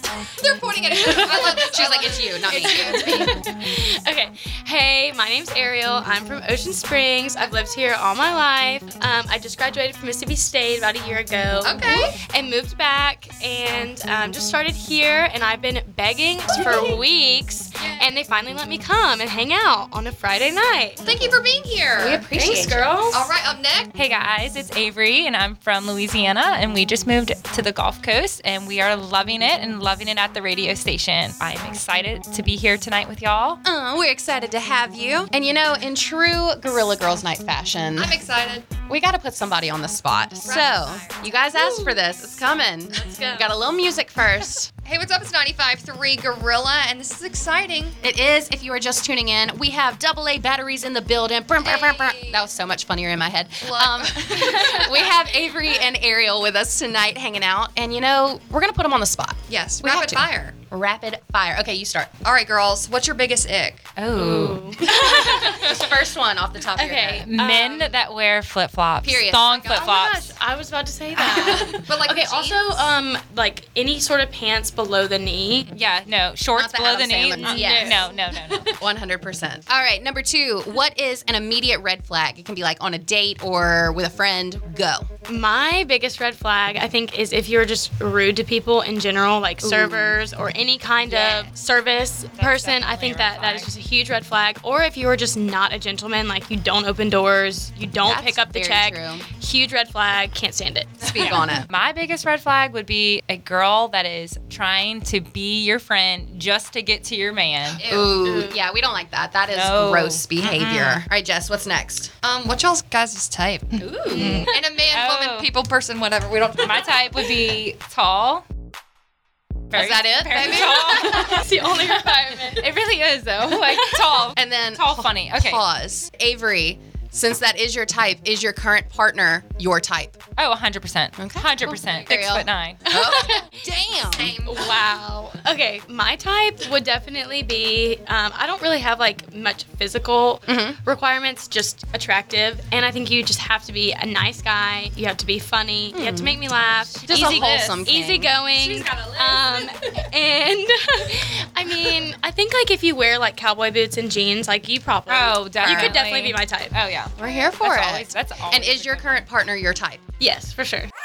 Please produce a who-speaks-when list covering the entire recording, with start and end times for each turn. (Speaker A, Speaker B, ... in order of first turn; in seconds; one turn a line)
Speaker A: 0.4-3.3
Speaker B: 1.1-3.3
Speaker C: 2.6-21.0
Speaker A: 11.6-12.2
Speaker A: 17.8-18.1
Speaker A: 21.0-22.3
Speaker B: 22.0-23.0
Speaker C: 22.3-23.3
Speaker A: 23.1-23.9
Speaker D: 23.9-33.6
Speaker B: 33.6-38.2
Speaker A: 37.9-38.7
Speaker B: 38.9-44.7
Speaker A: 40.4-41.2
Speaker C: 41.5-43.8
Speaker A: 44.8-48.0
Speaker B: 48.0-62.1
Speaker A: 51.6-52.4
Speaker A: 53.6-54.8
Speaker C: 54.5-54.9
Speaker A: 59.5-60.5
Speaker A: 62.2-64.3
Speaker D: 64.0-64.4
Speaker C: 64.2-65.8
Speaker B: 65.1-67.3
Speaker C: 66.7-68.0
Speaker D: 67.2-70.3
Speaker B: 69.0-69.9
Speaker C: 69.7-75.7
Speaker A: 71.2-72.9
Speaker D: 75.7-78.8
Speaker B: 76.5-78.1
Speaker C: 77.3-78.6
Speaker B: 78.7-85.1
Speaker C: 85.3-101.6
Speaker B: 89.6-90.2
Speaker D: 91.1-91.5
Speaker D: 92.3-93.7
Speaker B: 98.0-99.2
Speaker B: 101.0-101.7
Speaker D: 101.1-107.9
Speaker A: 107.8-108.1
Speaker B: 107.8-112.1
Speaker C: 108.2-108.7
Speaker D: 109.5-111.0
Speaker A: 112.2-117.3
Speaker D: 113.8-115.5
Speaker C: 114.2-114.5
Speaker D: 116.6-118.4
Speaker D: 119.7-125.6
Speaker B: 119.7-121.3
Speaker C: 121.0-122.7
Speaker C: 123.5-123.8
Speaker B: 124.2-130.2
Speaker D: 130.4-132.9
Speaker B: 131.2-134.3
Speaker C: 132.9-133.6
Speaker A: 134.0-134.6
Speaker C: 134.4-156.8
Speaker B: 140.5-140.8
Speaker B: 145.9-146.4
Speaker D: 147.0-147.9
Speaker B: 147.1-148.3
Speaker A: 148.6-149.7
Speaker D: 148.8-149.2
Speaker D: 155.1-159.3
Speaker B: 155.6-156.0
Speaker B: 157.2-160.0
Speaker C: 160.2-160.9